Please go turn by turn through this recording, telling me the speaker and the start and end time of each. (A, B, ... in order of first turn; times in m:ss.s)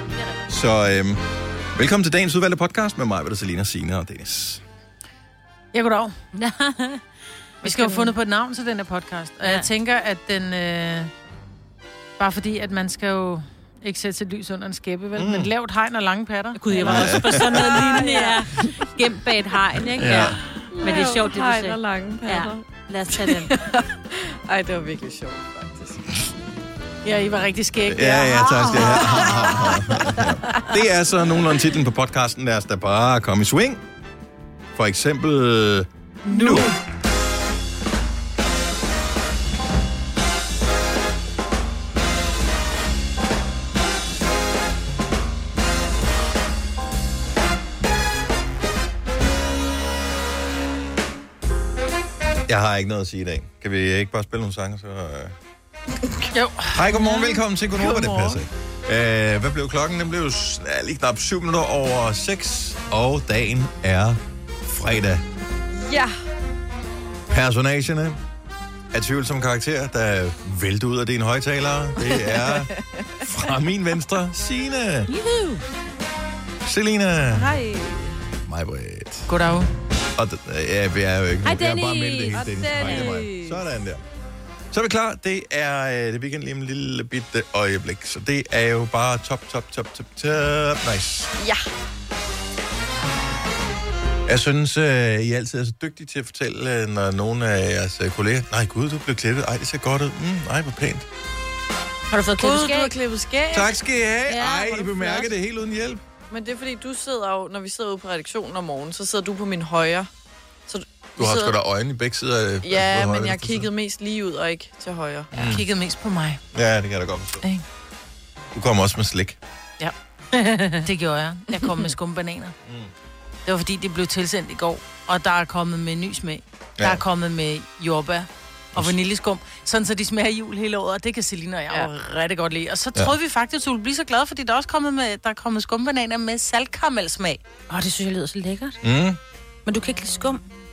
0:00.5-0:01.2 A
0:01.7-0:04.6 A
0:05.7-0:06.2 B
0:06.3-0:07.0 C
0:07.6-0:11.1 B
0:07.6-0:07.9 D
0:07.7-0:08.0 C
0:12.2-0:16.8 B
0:15.2-0:15.5 A
0:16.6-0:23.5 C
0:16.8-0:17.7 A
0:17.5-0:18.7 D
0:20.0-0:20.4 A
0:20.5-0:22.6 D
0:23.3-0:26.2 D
0:27.0-0:30.2 B
0:27.9-0:33.8 A
0:28.7-0:29.5 D
0:34.7-0:36.7 A
0:52.5-0:55.3 A
0:56.3-0:57.3 B
0:56.7-1:05.2 A
0:57.8-0:58.4 D
1:05.7-1:06.2 D
1:07.3-1:08.2 A
1:08.9-1:12.7 A
1:12.0-1:13.3 D
1:13.2-1:15.1 A
1:16.6-1:17.6 A
1:17.4-1:18.1 D
1:18.4-1:19.3 A
1:19.3-1:19.7 B
1:20.2-1:24.0 A
1:21.5-1:23.6 D
1:21.7-1:23.1 C
1:24.7-1:31.3 A
1:34.3-1:41.1 A
1:42.1-1:42.9 C
1:42.4-1:43.7 D
1:43.5-1:46.0 A
1:44.3-1:44.9 C
1:44.5-1:45.2 D
1:46.3-1:50.1 D
1:50.7-1:51.5 D
1:51.2-1:53.7 A
1:52.6-1:55.4 D
1:55.3-1:55.6 A
1:55.3-1:56.4 B
1:56.5-1:57.4 A
1:58.5-1:59.4 A
1:59.8-2:02.5 B
2:02.6-2:02.9 A
2:03.4-2:17.4 B
2:06.8-2:07.0 A
2:17.7-2:18.8 C
2:18.8-2:19.2 A
2:19.6-2:20.4 C